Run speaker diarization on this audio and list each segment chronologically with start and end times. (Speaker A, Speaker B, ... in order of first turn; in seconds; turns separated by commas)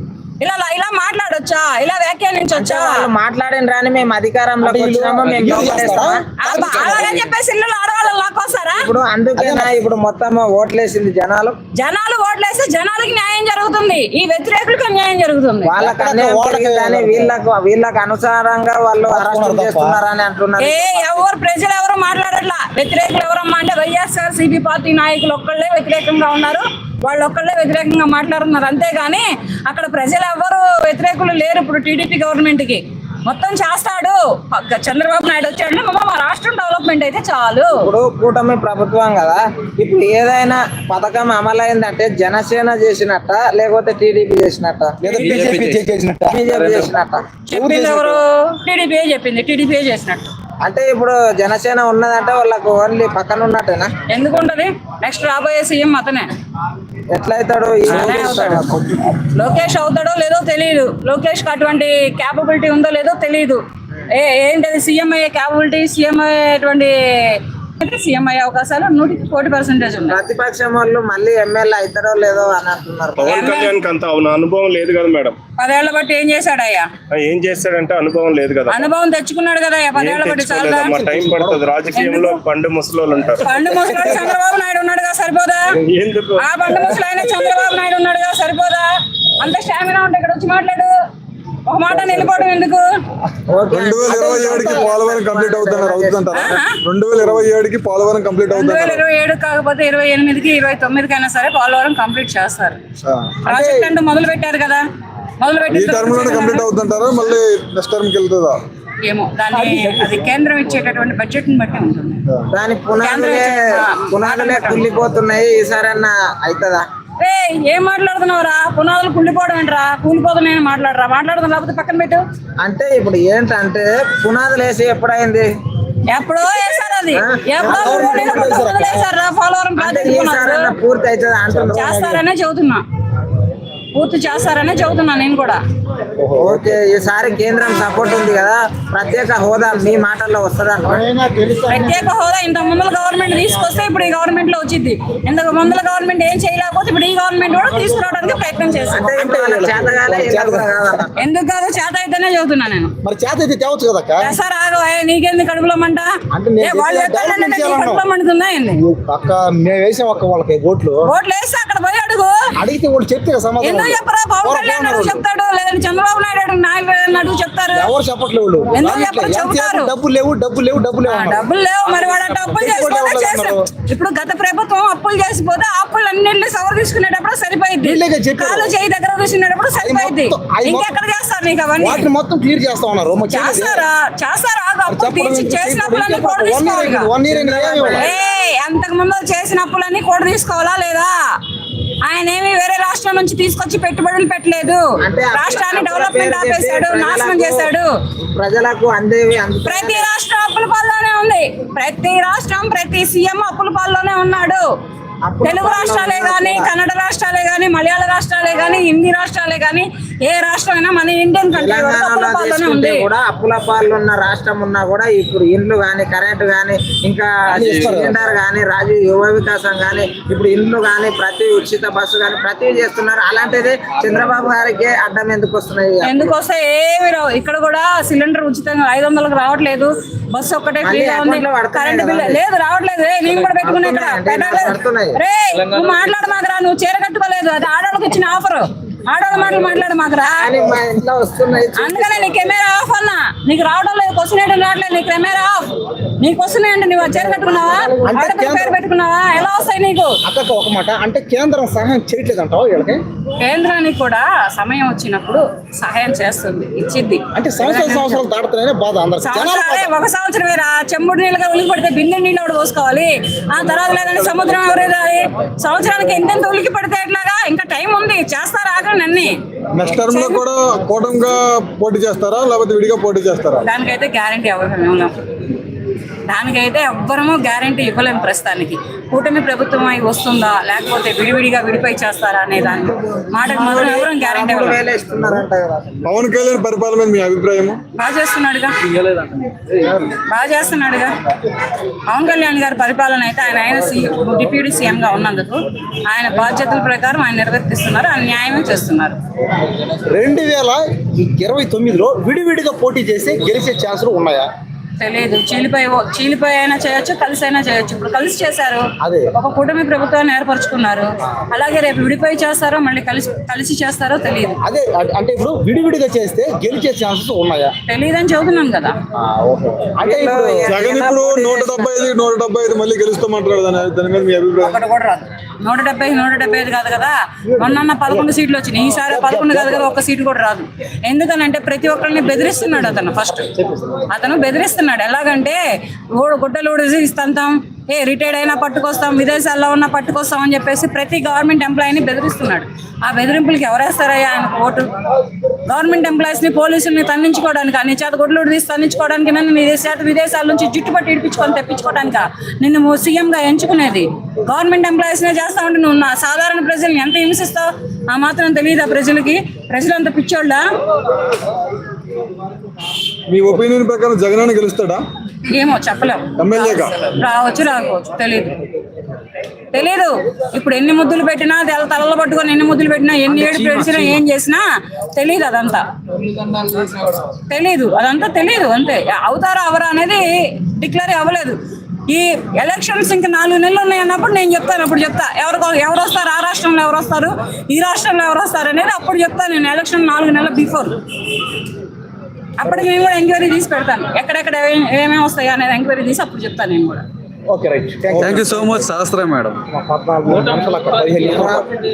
Speaker A: 0.4-3.1, Speaker B: 2.5-7.1, Speaker C: 4.6-7.2, Speaker D: 5.2-5.9, Speaker A: 6.4-8.9, Speaker D: 6.5-7.3, Speaker B: 8.8-11.6, Speaker C: 9.3-9.7, Speaker A: 11.8-15.8, Speaker B: 15.7-21.2, Speaker C: 15.8-17.4, Speaker C: 19.1-20.0, Speaker A: 20.6-37.7, Speaker B: 37.7-45.2, Speaker C: 45.0-46.9, Speaker D: 45.1-45.8, Speaker B: 46.3-47.2, Speaker A: 47.5-50.3, Speaker C: 47.5-48.2, Speaker B: 50.6-53.9, Speaker A: 54.1-56.3, Speaker B: 57.1-58.8, Speaker A: 57.8-58.6, Speaker C: 58.3-58.7, Speaker A: 59.2-63.6, Speaker A: 64.1-70.2, Speaker B: 70.1-73.5, Speaker E: 73.2-75.4, Speaker A: 73.2-73.8, Speaker A: 75.6-76.9, Speaker E: 77.1-78.9, Speaker A: 78.7-81.2, Speaker E: 79.9-84.3, Speaker A: 81.9-82.4, Speaker A: 83.4-85.8, Speaker E: 85.8-87.5, Speaker A: 86.4-88.9, Speaker A: 89.4-90.9, Speaker A: 91.7-92.8, Speaker B: 93.5-96.2, Speaker F: 93.7-99.0, Speaker C: 94.0-95.0, Speaker A: 96.3-96.8, Speaker A: 98.5-102.8, Speaker C: 103.1-103.6, Speaker A: 103.5-104.8, Speaker A: 105.4-106.7, Speaker F: 105.7-108.6, Speaker A: 109.0-112.2, Speaker C: 109.5-110.2, Speaker B: 112.5-116.8, Speaker A: 113.0-114.9, Speaker A: 117.2-122.2, Speaker B: 122.6-125.5, Speaker A: 126.1-130.7, Speaker B: 127.1-128.6, Speaker C: 127.6-129.1, Speaker B: 129.8-131.9, Speaker C: 131.5-132.2, Speaker A: 131.7-132.8, Speaker A: 133.9-135.6, Speaker C: 136.2-136.8, Speaker B: 136.4-141.1, Speaker C: 140.9-142.1, Speaker A: 141.7-149.1, Speaker B: 148.9-151.1, Speaker C: 149.0-151.0, Speaker A: 151.2-152.9, Speaker C: 153.0-154.3, Speaker A: 154.2-158.8, Speaker C: 156.3-158.1, Speaker C: 158.8-161.1, Speaker A: 161.1-162.3, Speaker C: 162.6-165.2, Speaker A: 163.6-167.9, Speaker C: 167.7-171.4, Speaker A: 168.7-169.9, Speaker A: 171.1-182.1, Speaker C: 172.5-173.7, Speaker C: 177.8-178.7, Speaker C: 179.8-180.9, Speaker C: 181.8-183.9, Speaker A: 183.3-187.1, Speaker C: 184.9-188.1, Speaker B: 187.3-188.2, Speaker A: 187.9-191.1, Speaker A: 192.0-197.9, Speaker B: 195.0-197.7, Speaker B: 198.2-200.1, Speaker A: 199.6-204.6, Speaker B: 205.2-206.7, Speaker A: 205.4-213.1, Speaker B: 211.5-226.3, Speaker C: 217.5-218.2, Speaker D: 217.6-218.1, Speaker A: 226.0-240.5, Speaker B: 230.8-232.4, Speaker B: 233.6-235.2, Speaker D: 235.5-236.3, Speaker B: 240.4-242.3, Speaker A: 241.8-250.2, Speaker C: 247.2-248.7, Speaker C: 250.2-253.0, Speaker A: 253.4-258.2, Speaker C: 257.3-259.9, Speaker A: 259.2-269.3, Speaker F: 269.7-273.6, Speaker A: 270.0-270.4, Speaker A: 273.6-275.1, Speaker A: 276.3-284.8, Speaker B: 283.4-286.0, Speaker F: 286.0-287.8, Speaker A: 288.0-288.7, Speaker D: 289.0-290.0, Speaker A: 290.3-291.1, Speaker A: 292.1-299.2, Speaker C: 299.7-304.5, Speaker A: 305.0-308.8, Speaker C: 309.0-309.3, Speaker A: 309.4-314.6, Speaker C: 314.6-317.7, Speaker A: 317.9-318.9, Speaker C: 319.1-320.7, Speaker B: 320.0-321.9, Speaker F: 320.7-324.8, Speaker A: 324.6-333.5, Speaker C: 327.5-328.3, Speaker C: 328.9-329.9, Speaker C: 333.5-333.9, Speaker A: 334.1-335.6, Speaker A: 336.1-344.9, Speaker A: 345.7-360.6, Speaker F: 363.3-365.0, Speaker A: 365.5-368.6, Speaker F: 366.4-366.9, Speaker A: 369.7-374.6, Speaker C: 373.3-374.2, Speaker A: 375.1-375.9, Speaker D: 376.2-377.2, Speaker A: 377.5-381.6, Speaker A: 382.1-391.0, Speaker A: 392.6-397.0, Speaker C: 397.5-398.9, Speaker D: 398.2-399.4, Speaker C: 399.5-401.7, Speaker D: 400.4-401.4